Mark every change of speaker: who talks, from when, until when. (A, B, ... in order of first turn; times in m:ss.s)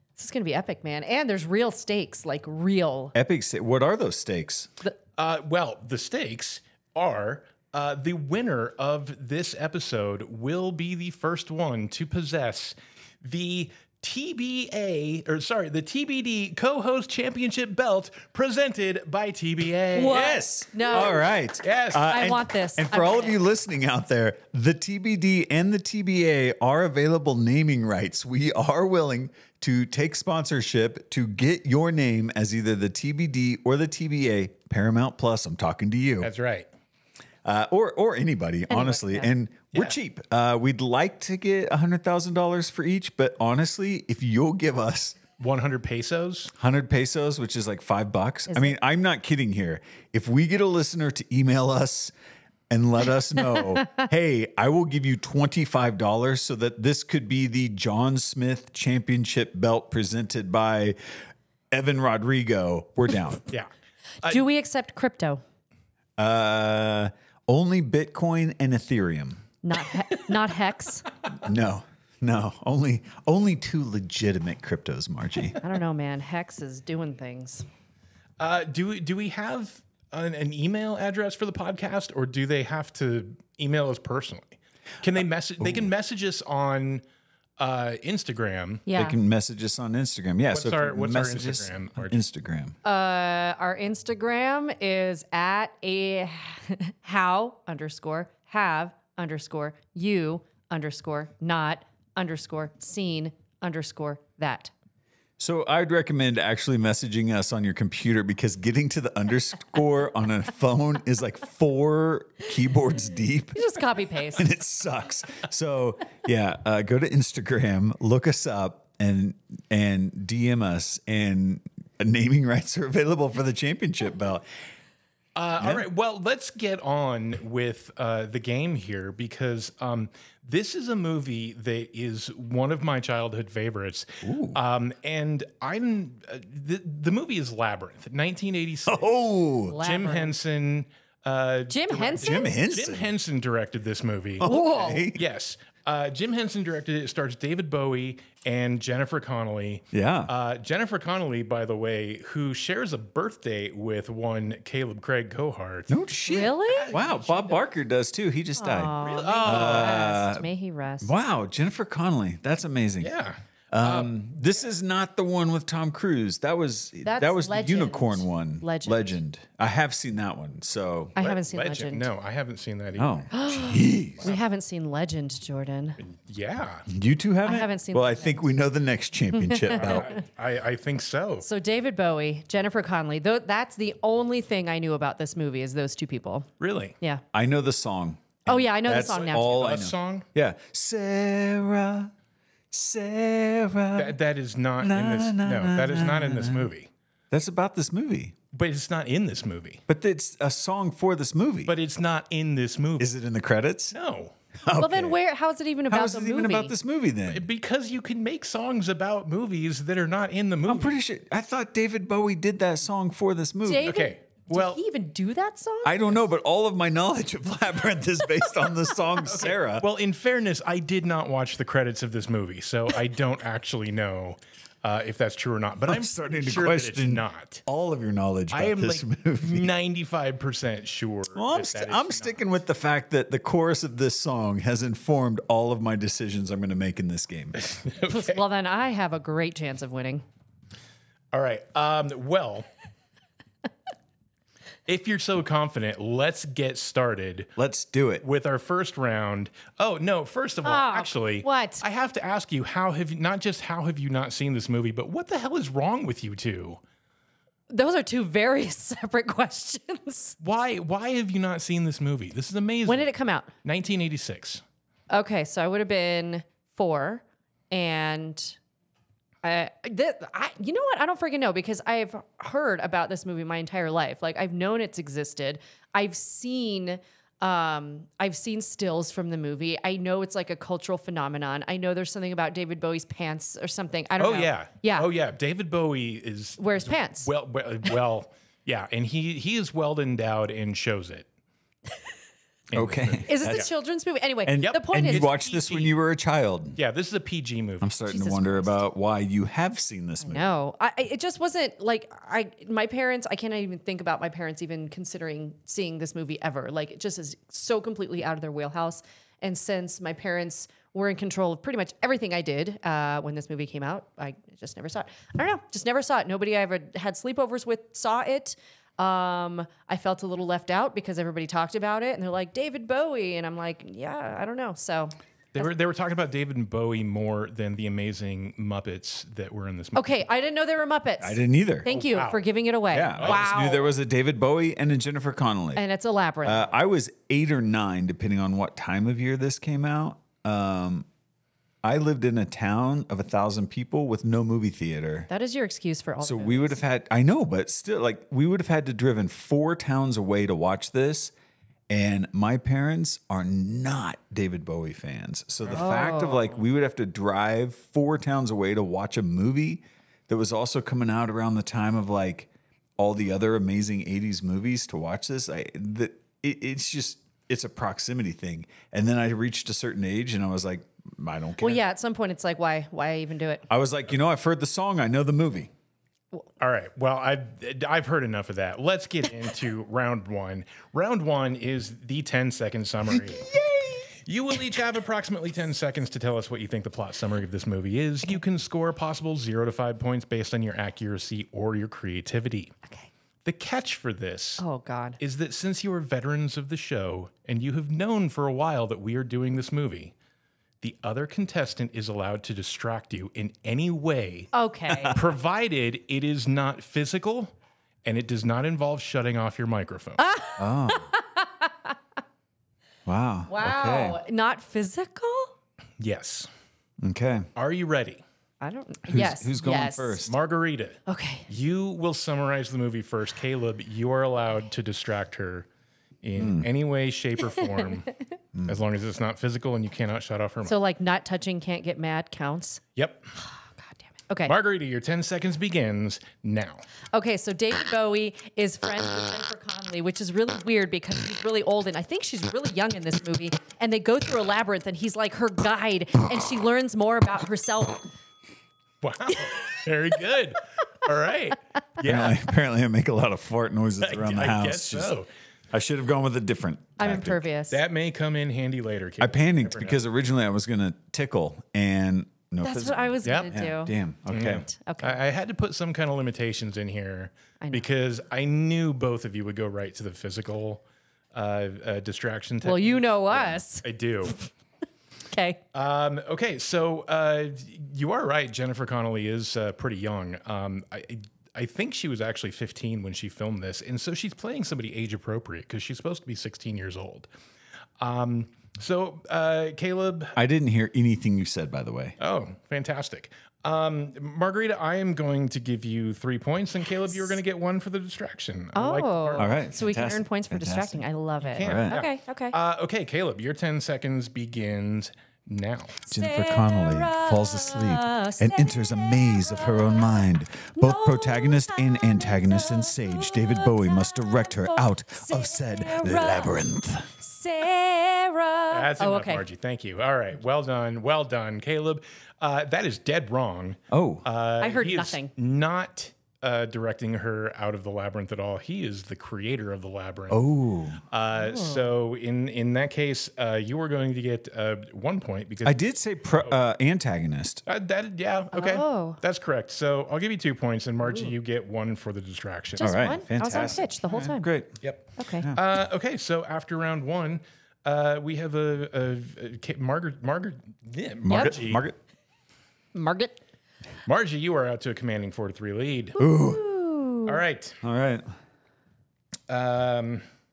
0:00.2-0:03.1 A
0:03.1-0:04.7 B
0:05.2-0:21.1 C
0:19.9-0:21.3 A
0:20.1-0:36.3 B
0:21.6-0:22.2 C
0:22.0-0:23.4 A
0:36.2-0:36.7 C
0:37.4-0:45.2 B
0:38.7-0:39.3 A
0:45.4-0:46.5 C
0:46.5-0:52.1 B
0:48.5-0:48.8 A
0:52.7-1:01.0 B
1:01.7-1:03.4 B
1:04.3-1:05.4 A
1:06.2-1:09.4 B
1:09.6-1:11.1 A
1:11.3-1:15.6 B
1:15.6-1:17.7 A
1:18.4-1:27.0 C
1:25.6-1:25.9 B
1:27.6-1:28.8 C
1:28.9-1:29.2 A
1:28.9-1:32.8 B
1:30.5-1:32.2 C
1:32.8-1:44.7 A
1:45.4-1:53.6 B
1:53.6-1:54.5 A
1:54.3-2:04.4 B
2:05.3-2:19.2 C
2:14.2-2:14.6 B
2:18.9-2:19.8 B
2:19.7-2:20.3 A
2:19.8-2:24.5 C
2:21.7-2:22.5 A
2:22.2-2:23.1 B
2:24.4-2:25.2 B
2:24.4-2:25.1 A
2:25.1-2:35.9 C
2:29.9-2:30.3 B
2:35.9-2:40.5 B
2:36.3-2:36.9 A
2:36.6-2:37.6 C
2:38.6-2:41.1 A
2:39.0-2:40.1 C
2:41.0-2:43.1 B
2:43.0-2:44.2 C
2:43.7-2:51.2 B
2:47.0-2:49.2 A
2:51.2-2:52.1 A
2:51.2-2:53.4 C
2:53.0-2:54.3 B
2:53.3-2:56.0 A
2:56.0-2:56.9 C
2:56.9-3:00.2 B
2:57.4-2:58.6 A
2:59.3-3:00.1 A
2:59.7-3:01.5 C
3:01.4-3:06.5 A
3:06.6-3:07.0 C
3:07.3-3:12.1 B
3:08.5-3:09.7 A
3:09.0-3:10.3 C
3:12.7-3:14.2 B
3:14.0-3:16.9 C
3:14.8-3:16.7 B
3:17.3-3:18.3 B
3:18.5-3:19.8 C
3:19.9-3:21.7 B
3:21.6-3:23.1 C
3:23.0-3:23.9 B
3:23.9-3:24.3 C
3:24.6-3:25.2 B
3:24.8-3:26.7 A
3:25.9-3:27.4 B
3:27.3-3:31.0 C
3:30.7-3:34.0 B
3:33.6-3:36.2 A
3:33.9-3:34.8 C
3:35.8-3:39.9 B
3:39.2-3:47.6 C
3:45.9-3:49.7 B
3:48.5-3:52.4 C
3:51.3-3:57.6 B
3:57.6-3:58.4 C
3:58.1-4:00.2 A
4:01.3-4:02.7 C
4:04.9-4:07.5 C
4:07.6-4:08.2 B
4:08.2-4:16.8 C
4:10.6-4:11.8 A
4:17.7-4:20.4 A
4:20.4-4:23.1 C
4:22.9-4:23.5 A
4:23.6-4:24.6 C
4:25.1-4:28.6 A
4:29.4-4:45.1 A
4:44.2-4:51.3 C
4:46.6-4:47.3 A
4:52.7-4:53.7 C
4:52.8-4:53.7 B
4:53.3-4:55.3 A
4:54.4-4:56.8 B
4:54.6-4:55.9 C
4:56.8-4:57.9 C
4:57.8-5:00.5 B
4:58.1-4:58.9 A
5:00.2-5:25.1 A
5:25.5-5:30.2 C
5:30.0-5:33.9 A
5:31.2-5:31.9 B
5:31.9-5:32.4 C
5:32.9-5:35.8 B
5:33.2-5:33.5 C
5:35.8-5:36.7 A
5:36.4-5:41.1 B
5:41.8-5:45.3 B
5:45.3-5:46.8 A
5:46.2-5:51.3 B
5:51.9-6:11.8 B
5:55.7-5:56.6 A
6:11.6-6:13.7 A
6:13.7-6:15.7 B
6:16.6-6:23.5 C
6:23.3-6:24.0 B
6:24.2-6:32.7 C
6:33.4-6:34.6 C
6:34.6-6:35.2 A
6:35.2-6:40.2 C
6:40.8-6:44.5 C
6:44.5-6:45.2 A
6:44.9-6:45.2 B
6:45.1-6:47.5 C
6:48.0-6:50.2 C
6:50.2-6:51.9 A
6:50.6-6:51.1 B
6:53.1-6:54.2 B
6:53.5-6:55.5 A
6:56.0-6:56.5 C
6:57.0-6:57.5 B
6:57.6-6:58.2 C
6:58.6-7:00.2 A
6:59.1-7:00.4 B
7:00.2-7:05.7 C
7:01.1-7:01.5 A
7:06.2-7:08.1 C
7:06.4-7:06.7 B
7:08.7-7:10.8 C
7:10.7-7:12.8 A
7:13.0-7:13.3 C
7:13.8-7:14.6 A
7:14.4-7:16.8 C
7:17.1-7:28.1 A
7:29.0-7:32.4 C
7:32.0-7:35.1 B
7:34.0-7:35.3 C
7:35.7-7:37.4 B
7:37.0-7:37.8 A
7:37.7-7:40.0 C
7:39.2-7:44.6 B
7:42.6-7:43.9 A
7:43.2-7:43.5 C
7:44.3-7:50.8 C
7:44.5-7:45.2 A
7:51.3-7:54.4 C
7:52.6-7:54.4 A
7:55.3-7:55.6 A
7:55.7-8:07.3 C
8:08.0-8:10.4 C
8:10.4-8:12.2 B
8:12.2-8:19.5 C
8:18.7-8:22.6 A
8:19.4-8:21.0 B
8:21.4-8:26.0 C
8:21.6-8:21.9 B
8:26.0-8:30.2 A
8:26.1-8:37.2 B
8:30.8-8:36.6 A
8:37.2-8:39.4 A
8:38.7-8:50.4 C
8:43.9-8:44.2 B
8:44.6-8:45.3 A
8:50.3-8:51.0 B
8:51.1-8:55.8 C
8:51.4-8:51.9 A
8:55.6-8:57.6 B
8:57.6-9:02.9 C
8:58.5-8:59.2 A
9:01.1-9:01.3 A
9:02.8-9:04.5 A
9:02.8-9:04.7 B
9:04.8-9:11.9 C
9:05.2-9:05.5 A
9:11.2-9:12.0 B
9:11.3-9:11.6 A
9:12.9-9:13.4 A
9:14.1-9:16.2 C
9:16.2-9:16.6 B
9:16.2-9:17.4 A
9:17.2-9:17.8 C
9:17.8-9:18.3 B
9:19.5-9:20.2 C